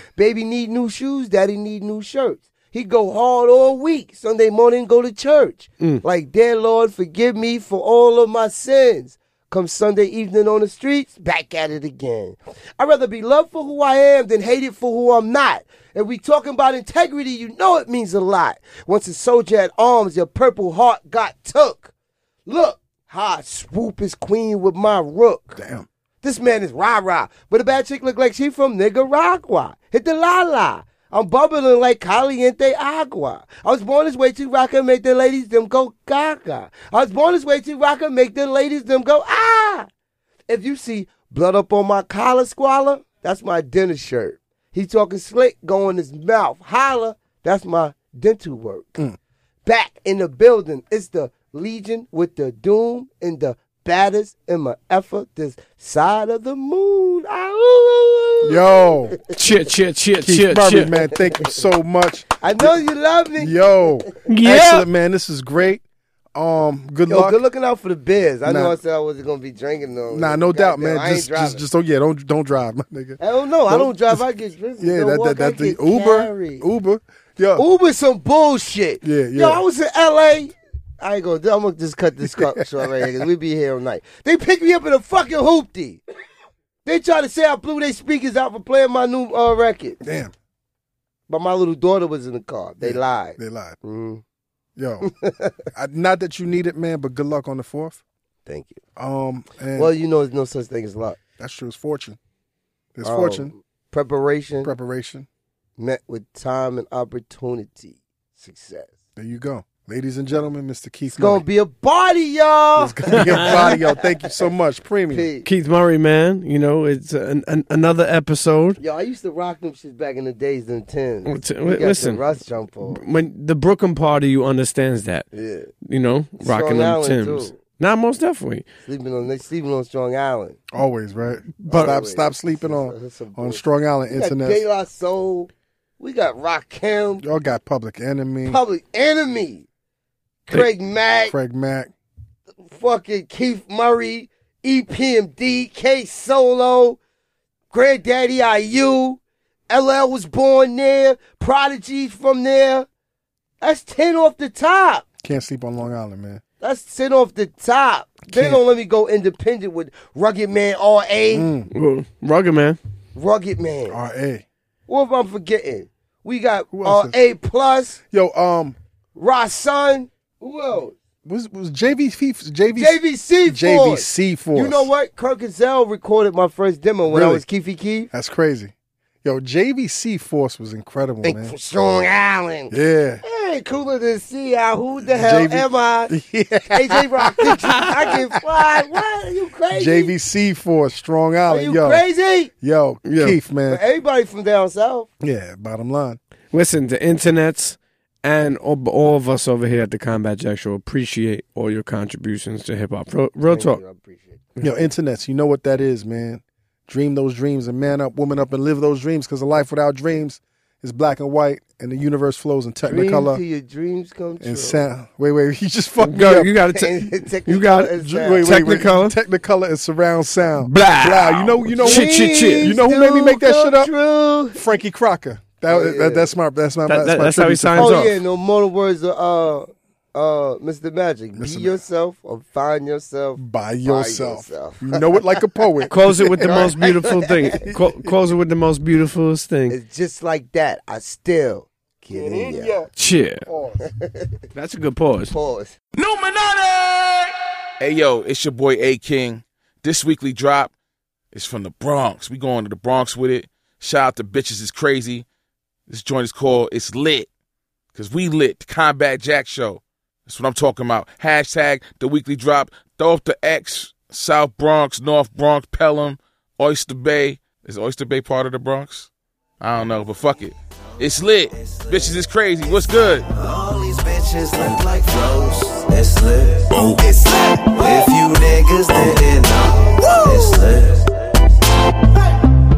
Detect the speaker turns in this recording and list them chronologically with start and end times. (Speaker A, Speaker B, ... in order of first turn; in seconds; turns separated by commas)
Speaker A: 0.1-21.9, Speaker A: 22.4-25.6, Speaker B: 25.6-25.8, Speaker A: 26.2-39.9, Speaker A: 40.5-49.0, Speaker A: 49.6-59.1, Speaker B: 58.4-59.2, Speaker C: 59.3-60.9, Speaker B: 60.2-62.7, Speaker A: 62.4-63.9, Speaker B: 63.4-65.8, Speaker C: 64.3-64.8, Speaker B: 66.3-67.4, Speaker A: 67.1-71.6, Speaker B: 68.4-68.8, Speaker B: 70.1-74.2, Speaker A: 73.2-76.7, Speaker B: 74.8-77.6, Speaker A: 77.5-86.0, Speaker B: 79.0-79.6, Speaker B: 82.2-83.1, Speaker A: 86.8-90.0, Speaker B: 90.0-90.3, Speaker A: 91.3-94.2, Speaker B: 92.8-93.8, Speaker B: 94.8-95.1, Speaker A: 95.0-95.6, Speaker B: 95.7-98.0, Speaker A: 98.5-98.8, Speaker B: 99.0-99.9, Speaker A: 99.8-101.2, Speaker B: 101.4-102.2, Speaker B: 102.9-103.5, Speaker A: 103.0-104.7, Speaker B: 104.6-105.3, Speaker A: 105.8-108.9, Speaker B: 109.2-111.4, Speaker A: 111.1-114.3, Speaker B: 112.8-115.3, Speaker C: 113.1-113.5, Speaker A: 115.1-115.5, Speaker C: 115.4-118.8, Speaker A: 118.8-123.0, Speaker C: 121.2-122.2, Speaker C: 122.9-125.3, Speaker A: 125.3-125.7, Speaker C: 125.8-128.7, Speaker A: 126.4-127.5, Speaker A: 128.8-130.6, Speaker B: 130.7-134.6, Speaker A: 131.7-137.2, Speaker B: 137.2-138.6, Speaker A: 138.4-139.7, Speaker A: 140.4-141.3, Speaker B: 141.3-141.9, Speaker A: 142.6-147.0, Speaker A: 147.7-152.9, Speaker A: 153.6-155.1, Speaker B: 155.2-156.4, Speaker A: 156.6-161.5, Speaker B: 158.3-158.6, Speaker B: 161.3-161.7, Speaker C: 161.7-162.8, Speaker A: 163.1-164.0, Speaker B: 163.9-164.4, Speaker A: 164.9-168.0, Speaker B: 166.7-167.1, Speaker B: 168.1-168.8, Speaker A: 169.2-170.9, Speaker B: 171.2-174.9, Speaker A: 172.7-178.1, Speaker B: 177.1-177.4, Speaker B: 178.1-178.7, Speaker B: 179.2-181.5, Speaker A: 181.2-186.2, Speaker B: 182.7-183.2, Speaker B: 185.1-188.8, Speaker A: 186.7-190.1, Speaker B: 189.7-193.8, Speaker A: 191.5-192.5, Speaker C: 193.0-193.4, Speaker A: 193.7-195.1, Speaker B: 195.2-196.2, Speaker C: 196.5-203.8, Speaker A: 203.5-204.5, Speaker B: 204.6-213.4, Speaker A: 212.8-214.8, Speaker B: 214.4-216.6, Speaker C: 216.0-219.2, Speaker A: 216.7-218.5, Speaker B: 218.0-223.9, Speaker C: 220.6-222.7, Speaker A: 221.8-224.6, Speaker B: 224.5-228.0, Speaker A: 225.7-226.3, Speaker C: 226.9-228.2, Speaker A: 227.8-235.9, Speaker B: 231.3-231.8, Speaker B: 233.4-236.6, Speaker C: 235.9-239.8, Speaker A: 236.4-237.6, Speaker A: 239.7-242.8, Speaker B: 242.1-242.9, Speaker C: 242.9-243.4, Speaker B: 243.4-243.8, Speaker A: 243.8-244.3, Speaker C: 244.5-245.3, Speaker A: 245.3-245.8, Speaker D: 246.0-246.5, Speaker E: 247.8-250.7, Speaker E: 251.3-255.2, Speaker E: 255.9-257.3, Speaker E: 257.9-273.3, Speaker D: 271.5-272.2, Speaker D: 273.3-281.2